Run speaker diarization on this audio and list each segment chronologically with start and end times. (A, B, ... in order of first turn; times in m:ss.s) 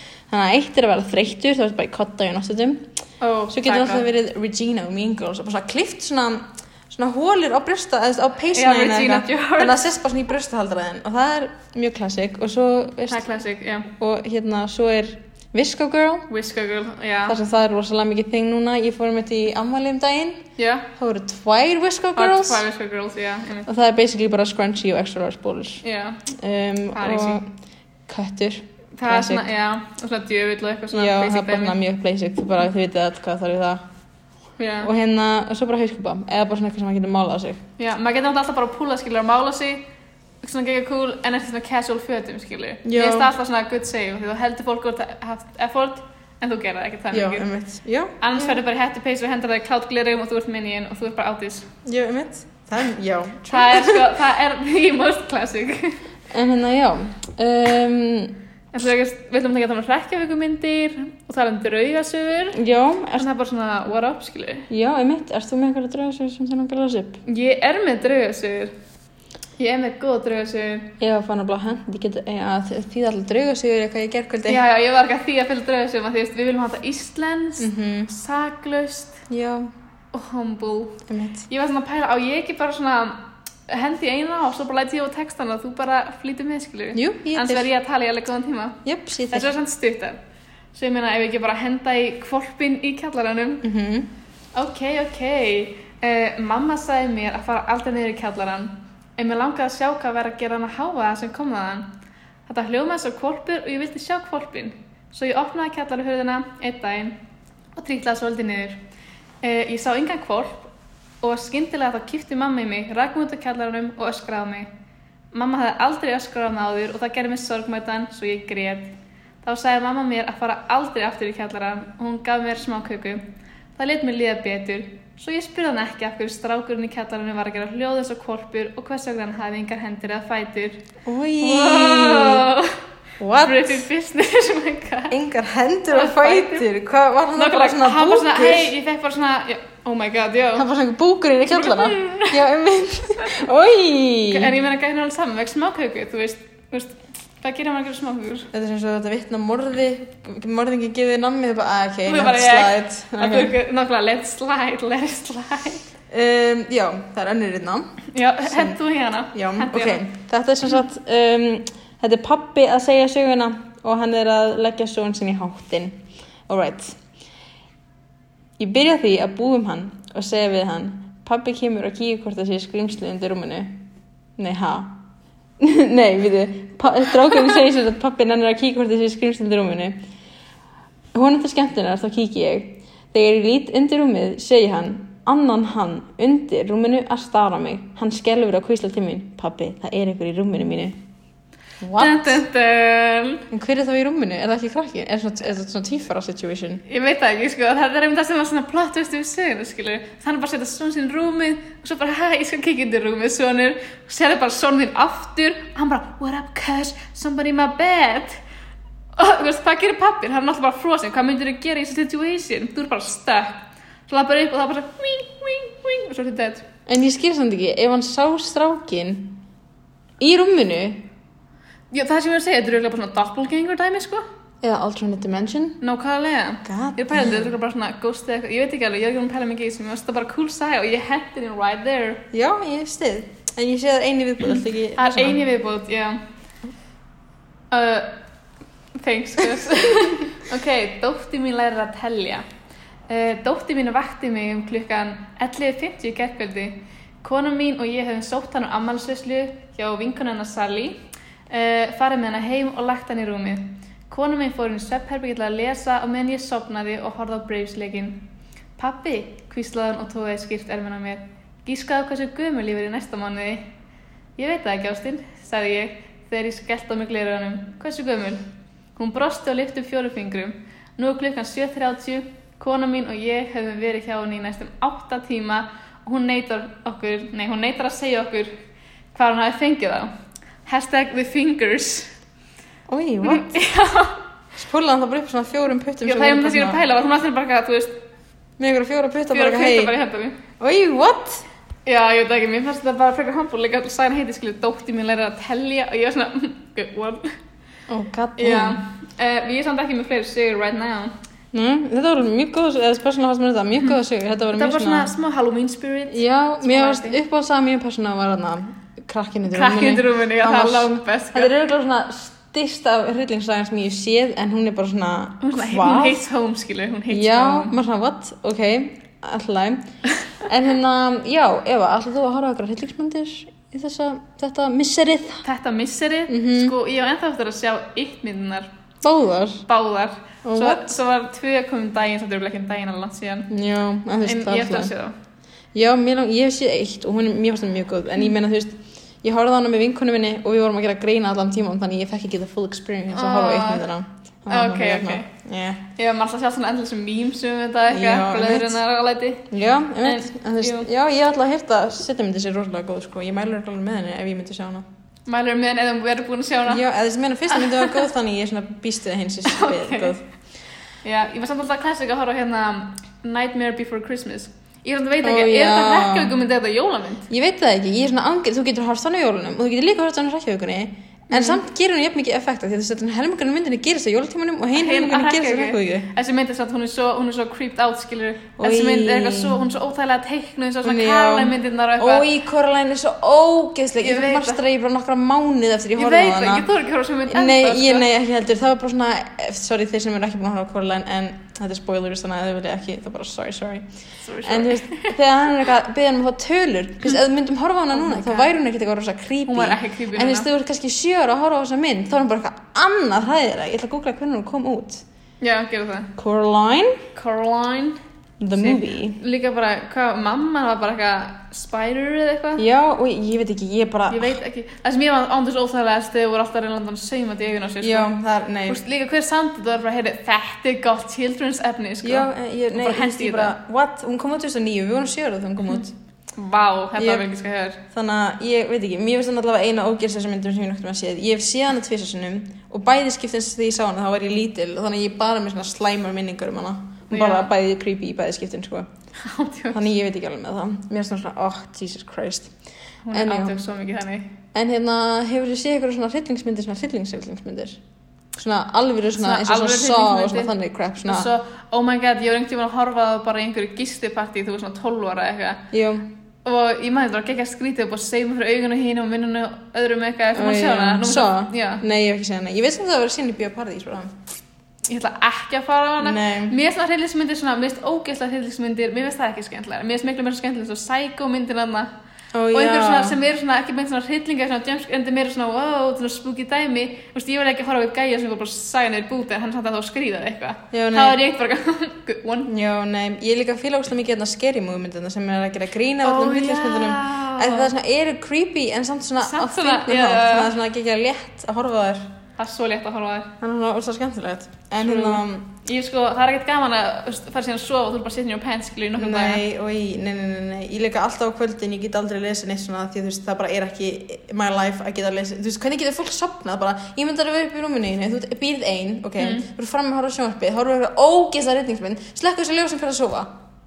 0:00.3-0:02.9 A
0:03.2-0:04.1 B
0:03.5-0:13.2 A
0:08.5-0:09.8 B
0:13.1-0:13.9 B
0:13.9-0:16.2 A
0:16.3-0:17.4 B
0:17.3-0:20.4 A
0:20.6-0:20.9 B
0:21.0-0:22.6 A
0:22.2-0:23.7 B
0:23.7-0:27.5 A
0:25.8-0:26.2 B
0:26.9-0:27.4 B
0:28.1-0:29.4 A
0:29.0-0:31.8 B
0:30.9-0:33.8 A
0:34.6-0:34.9 B
0:34.8-0:37.6 A
0:37.8-0:39.8 B
0:40.4-0:47.5 B
0:42.8-0:43.3 A
0:47.1-0:48.6 A
0:48.2-0:51.7 B
0:51.8-0:54.1 A
0:53.5-0:56.0 B
0:56.3-0:58.4 A
0:58.7-1:02.6 B
1:02.5-1:03.3 A
1:03.1-1:04.7 B
1:04.7-1:07.2 A
1:07.2-1:08.7 B
1:09.6-1:10.9 B
1:11.0-1:14.6 A
1:14.5-1:19.2 B
1:17.6-1:18.1 A
1:19.3-1:19.7 A
1:20.1-1:28.8 B
1:21.1-1:21.4 A
1:26.9-1:27.7 A
1:28.8-1:29.5 A
1:29.3-1:30.2 B
1:30.7-1:33.6 B
1:33.6-1:34.1 A
1:34.6-1:41.9 B
1:42.5-1:47.2 B
1:47.8-1:48.8 B
1:49.4-1:50.7 B
1:51.2-1:54.7 B
1:55.3-1:58.9 B
1:59.4-2:03.2 B
2:03.8-2:10.8 B
2:11.0-2:12.5 A
2:11.4-2:12.8 B
2:13.2-2:13.9 A
2:13.4-2:15.2 B
2:15.1-2:18.8 A
2:15.9-2:16.7 B
2:17.4-2:20.7 B
2:20.6-2:24.5 A
2:21.5-2:22.4 B
2:24.3-2:28.5 B
2:28.5-2:33.5 A
2:32.0-2:35.8 B
2:36.1-2:38.8 A
2:38.1-2:40.0 B
2:39.3-2:47.0 A
2:48.6-2:53.9 A
2:54.4-2:55.0 A
2:55.6-3:00.0 A
3:01.1-3:11.0 A
3:11.8-3:12.4 A
3:12.0-3:13.4 B
3:13.5-3:16.8 A
3:16.9-3:28.4 B
3:29.2-3:36.7 B
3:36.9-3:39.4 A
3:40.2-3:41.1 A
3:41.9-3:44.2 B
3:44.6-3:45.8 A
3:45.8-3:52.2 B
3:46.6-3:47.6 A
3:52.3-3:55.4 A
3:55.0-3:56.2 B
3:57.7-3:58.1 B
3:59.0-4:02.4 B
4:03.1-4:18.2 B
4:18.8-4:23.7 B
4:24.4-4:28.4 B
4:29.0-4:38.6 B
4:39.1-4:40.1 B
4:40.7-4:42.1 B
4:42.9-4:43.6 A
4:43.2-4:44.2 B
4:44.6-4:46.8 A
4:46.0-4:48.0 B
4:48.6-4:49.9 A
4:49.3-4:50.4 B
4:50.6-4:51.4 A
4:51.9-4:57.4 B
4:57.9-4:58.8 A
4:58.4-5:01.1 B
5:01.5-5:05.1 A
5:04.5-5:07.2 B
5:06.1-5:16.2 A
5:09.5-5:11.5 B
5:15.4-5:17.8 B
5:17.1-5:19.9 A
5:20.4-5:25.4 A
5:25.4-5:28.7 B
5:26.3-5:26.7 A
5:29.0-5:29.6 A
5:29.7-5:33.5 B
5:30.4-5:31.0 A
5:33.5-5:34.9 A
5:34.2-5:35.1 B
5:35.7-5:45.8 A
5:43.1-5:43.8 B
5:44.5-5:45.3 B
5:46.0-5:49.5 B
5:47.9-5:48.8 A
5:49.5-5:54.9 A
5:50.0-5:50.9 B
5:55.3-5:56.8 B
5:56.7-6:00.2 A
5:57.5-5:58.1 B
5:59.4-6:00.1 B
6:01.0-6:07.3 B
6:05.2-6:06.4 A
6:07.3-6:16.1 A
6:11.3-6:11.6 B
6:14.7-6:22.3 B
6:18.6-6:19.6 A
6:20.8-6:26.7 A
6:24.0-6:24.6 B
6:26.0-6:28.1 B
6:27.3-6:33.8 A
6:34.2-6:35.2 B
6:34.4-6:45.0 A
6:37.9-6:38.5 B
6:39.5-6:40.5 B
6:45.4-6:46.1 B
6:46.2-6:47.0 A
6:47.2-6:48.0 B
6:48.4-6:49.2 A
6:48.6-6:52.6 B
6:52.6-6:54.4 A
6:54.1-6:58.1 B
6:57.8-6:58.8 A
6:58.7-7:03.6 B
7:02.0-7:05.9 A
7:06.4-7:07.8 B
7:07.0-7:07.2 A
7:07.9-7:18.9 A
7:17.1-7:17.5 B
7:19.2-7:19.8 B
7:19.7-7:22.5 A
7:23.0-7:24.3 B
7:23.1-7:23.6 A
7:24.5-7:27.8 A
7:28.3-7:31.3 A
7:29.2-7:35.6 B
7:35.7-7:36.1 A
7:36.4-7:41.8 B
7:40.3-7:44.2 A
7:44.8-7:51.9 B
7:46.0-7:46.6 A
7:52.3-7:53.2 A
7:52.5-8:02.5 B
8:00.7-8:01.2 A
8:02.5-8:12.1 A
8:06.0-8:07.7 B
8:09.2-8:10.5 B
8:12.4-8:13.3 B
8:13.4-8:15.5 A
8:14.8-8:19.4 B
8:19.0-8:33.3 A
8:29.2-8:29.5 B